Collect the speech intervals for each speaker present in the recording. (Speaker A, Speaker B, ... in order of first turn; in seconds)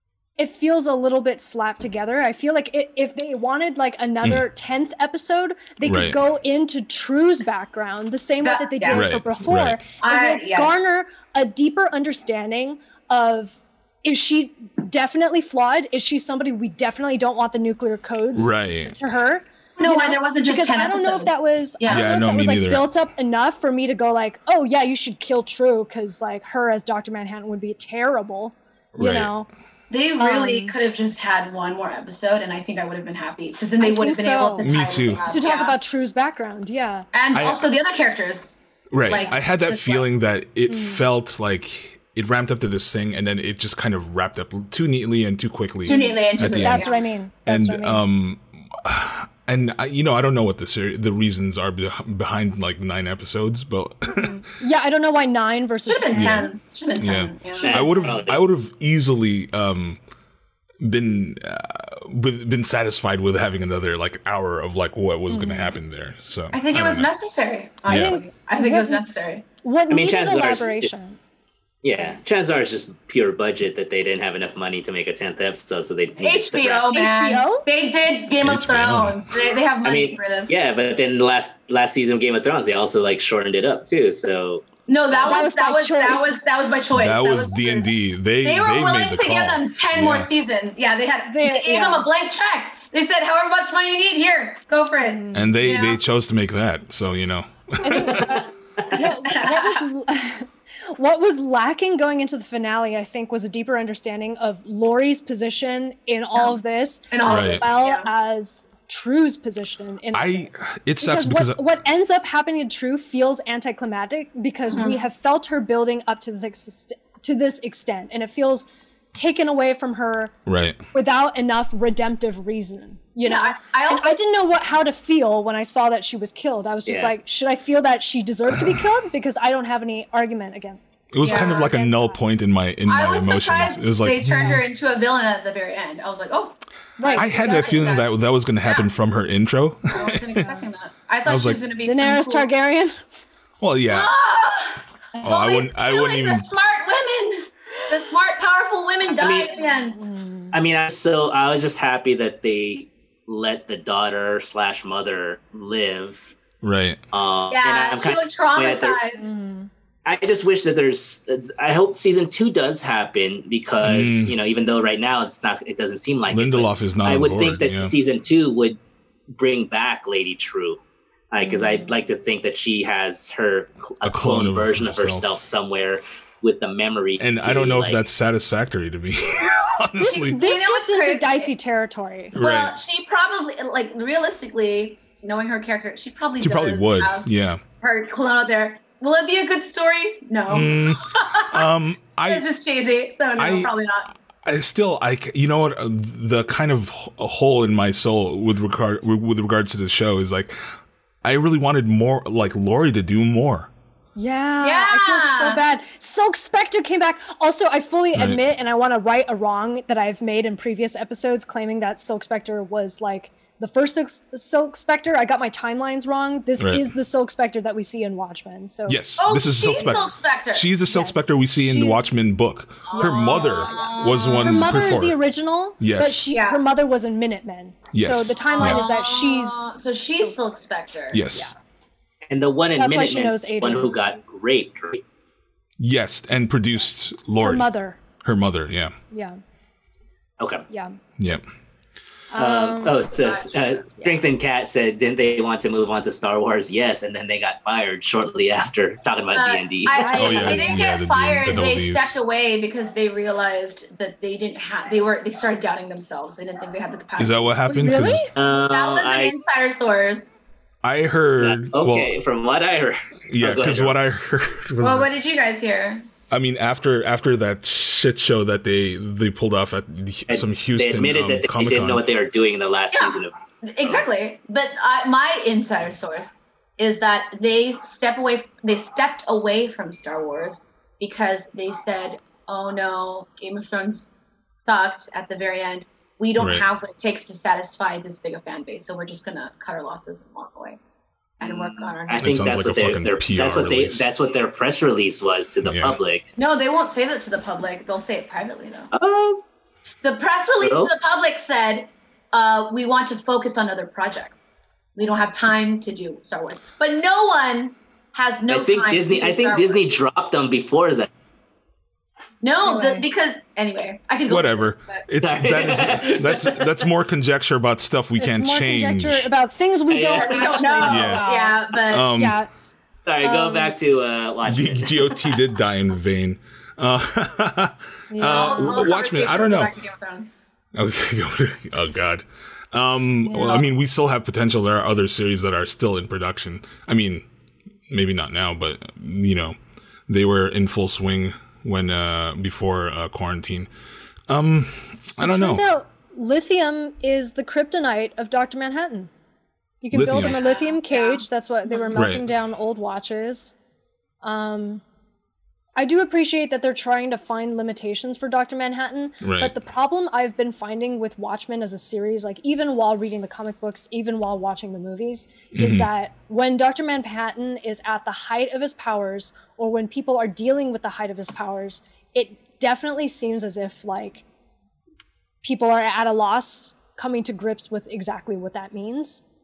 Speaker A: 0.4-29.5, 30.2-30.7, 33.8-37.1, 40.7-41.0, 45.9-48.0, 54.1-56.5, 65.3-65.7, 67.9-69.0, 69.6-71.2, 76.9-77.7, 85.3-86.4, 91.3-92.1, 95.0-95.6, 97.8-120.3, 120.9-132.2, 134.2-134.6, 137.0-137.8, 141.8-143.0, 149.9-150.6, 159.2-159.7, 171.4-171.9, 180.0-182.3, 204.2-219.0, 220.9-222.0, 222.9-229.7, 232.8-233.9, 237.4-238.0, 239.1-239.4, 240.7-241.0, 242.3-243.1, 249.9-250.8, 257.7-258.3, 312.6-313.1, 318.2-322.5, 323.2-323.7, 328.1-328.9, 333.2-333.6, 345.2-349.1, 349.8-353.5, 354.2-354.8, 355.8-374.2, 375.4-379.2
Speaker B: 5.8-6.2, 8.9-9.8, 18.4-18.9, 21.9-22.9, 28.9-29.3, 34.6-35.3, 37.3-37.6, 38.9-46.9, 47.5-54.4, 56.1-60.0, 60.8-67.1, 67.9-68.2, 78.4-79.3, 86.9-90.3, 95.3-98.4, 107.2-107.6, 110.1-111.6, 120.5-120.8, 131.1-134.6, 137.1-140.5, 141.2-141.6, 143.6-144.1, 145.2-146.5, 156.6-157.0, 163.8-164.3, 166.3-167.9, 174.0-175.3, 177.2-180.4, 182.3-182.8, 186.4-187.6, 190.5-192.4, 193.4-193.7, 194.4-200.6, 201.2-203.7, 208.1-208.4, 216.6-216.9, 218.9-225.2, 225.8-226.3, 227.9-228.8, 231.1-231.5, 235.8-237.7, 238.2-238.9, 241.2-241.4, 250.1-252.1, 257.2-258.3, 260.8-262.2, 263.3-265.1, 266.3-272.0, 286.4-286.6, 292.2-294.1, 295.6-296.0, 314.3-319.3, 320.8-321.3, 321.9-322.4, 324.4-329.8, 330.7-337.2, 337.9-339.6, 340.1-343.7, 344.3-345.6, 349.9-350.4, 351.9-352.2, 359.2-359.6, 365.5-365.9
Speaker C: 8.4-9.1, 10.0-10.8, 19.8-22.1, 29.9-35.7, 37.1-40.1, 45.9-47.0, 55.9-58.0, 66.5-69.5, 76.2-80.5, 84.9-87.9, 88.4-96.0, 98.9-99.8, 107.1-108.1, 114.7-115.0, 123.2-124.2, 131.2-131.7, 132.9-138.1, 138.6-138.9, 139.9-142.5, 143.9-150.0, 157.5-159.3, 180.0-181.5, 182.4-187.3, 187.8-191.7, 192.2-194.1, 204.6-205.6, 219.2-220.7, 222.9-224.9, 226.3-226.6, 228.5-231.2, 243.2-244.2, 249.3-257.6, 258.4-260.3, 264.8-266.1, 272.9-290.8, 291.4-292.5, 296.4-298.9, 300.0-304.4, 304.9-310.0, 312.4-315.1, 320.1-322.1, 328.2-330.3, 350.1-352.0
Speaker D: 57.6-58.4, 69.9-70.9, 71.8-77.0, 79.8-85.5, 126.9-127.1, 149.1-149.6, 150.5-156.3, 157.1-159.0, 160.1-168.8, 169.3-170.8, 171.3-178.1, 232.3-235.0, 240.4-240.7, 242.4-250.3, 258.3-259.3, 261.4-263.9, 270.3-274.0, 291.4-296.3, 298.9-299.4, 300.6-300.9, 308.5-311.1, 315.2-316.8, 319.9-321.1, 323.1-325.4